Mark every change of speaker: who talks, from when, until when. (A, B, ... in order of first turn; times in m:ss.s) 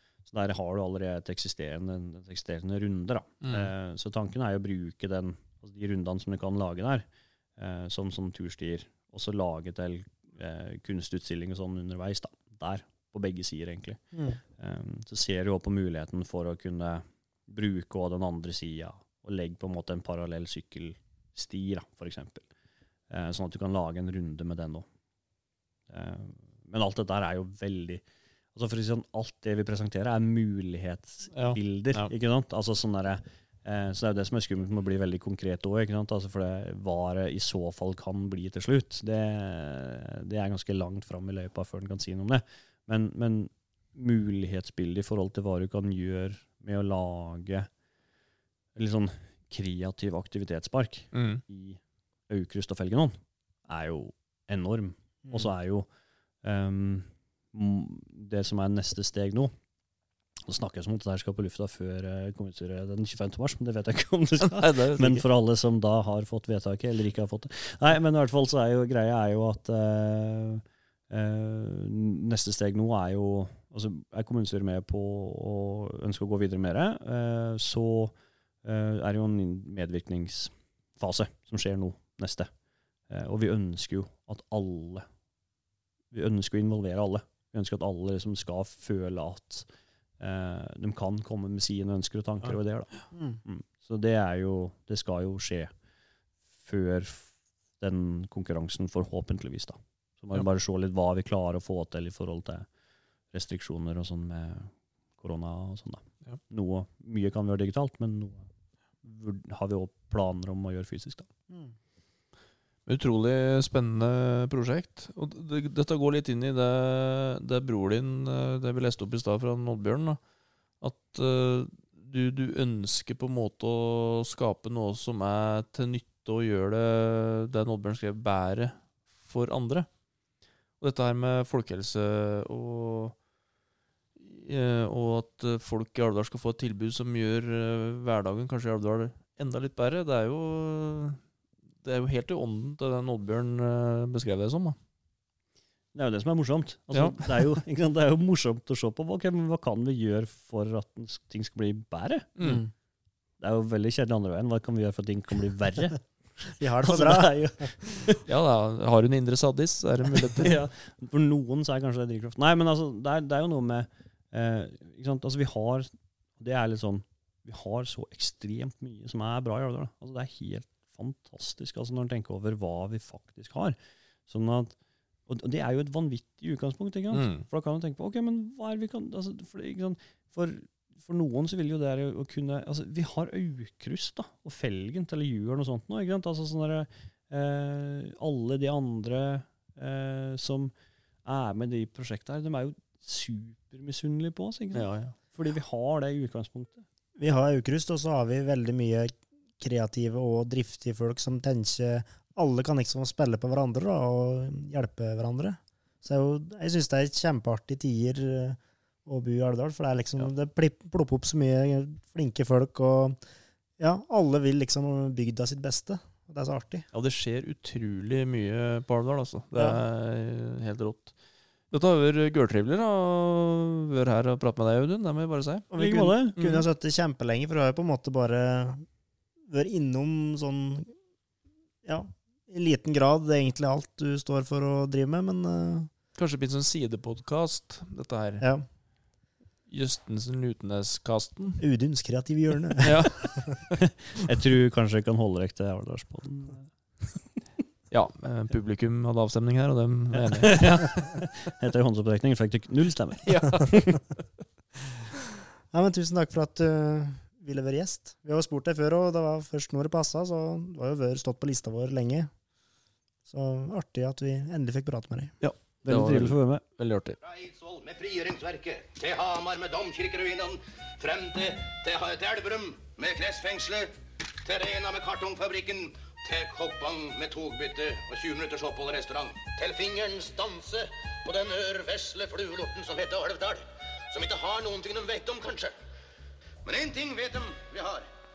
0:00.3-0:22.5 A
0:03.4-0:03.7 B
0:14.1-0:14.4 C
0:23.1-0:24.9 A
0:25.9-0:28.0 A
0:28.6-0:47.7 A
0:31.3-0:32.1 B
0:48.8-0:55.9 A
0:51.1-0:51.4 B
0:56.4-0:59.5 A
1:00.5-1:22.5 A
1:04.4-1:05.2 B
1:23.1-1:25.1 A
1:26.1-1:29.7 A
1:30.2-1:32.9 A
1:33.1-1:33.4 C
1:33.4-1:35.7 A
1:36.6-1:42.7 A
1:43.3-1:48.5 A
1:49.0-1:51.3 A
1:52.9-2:00.2 B
2:00.8-2:09.9 B
2:10.8-2:13.2 B
2:14.2-2:21.2 B
2:21.8-2:24.8 B
2:25.9-2:32.4 A
2:26.9-2:27.5 B
2:32.4-2:32.6 B
2:32.4-2:32.7 C
2:33.4-2:36.1 A
2:36.6-2:37.8 C
2:36.7-2:38.2 A
2:38.2-2:40.6 B
2:40.2-2:54.8 A
2:55.3-3:10.7 A
2:57.1-2:57.4 B
3:11.2-3:16.8 A
3:14.7-3:15.2 B
3:17.2-3:33.2 C
3:33.8-3:36.9 C
3:36.9-3:41.1 B
3:41.7-3:45.7 B
3:45.7-3:48.9 C
3:45.8-3:46.4 A
3:46.4-3:46.7 B
3:49.5-3:51.0 C
3:51.8-3:55.9 C
3:56.2-3:58.4 B
3:59.7-4:01.6 B
4:01.6-4:03.2 C
4:02.8-4:03.8 B
4:03.8-4:07.2 A
4:07.9-4:11.0 B
4:10.1-4:14.0 A
4:13.3-4:14.0 B
4:15.7-4:22.3 C
4:23.3-4:25.3 C
4:25.4-4:27.2 B
4:25.8-4:26.6 A
4:27.2-4:45.8 D
4:46.6-4:48.1 D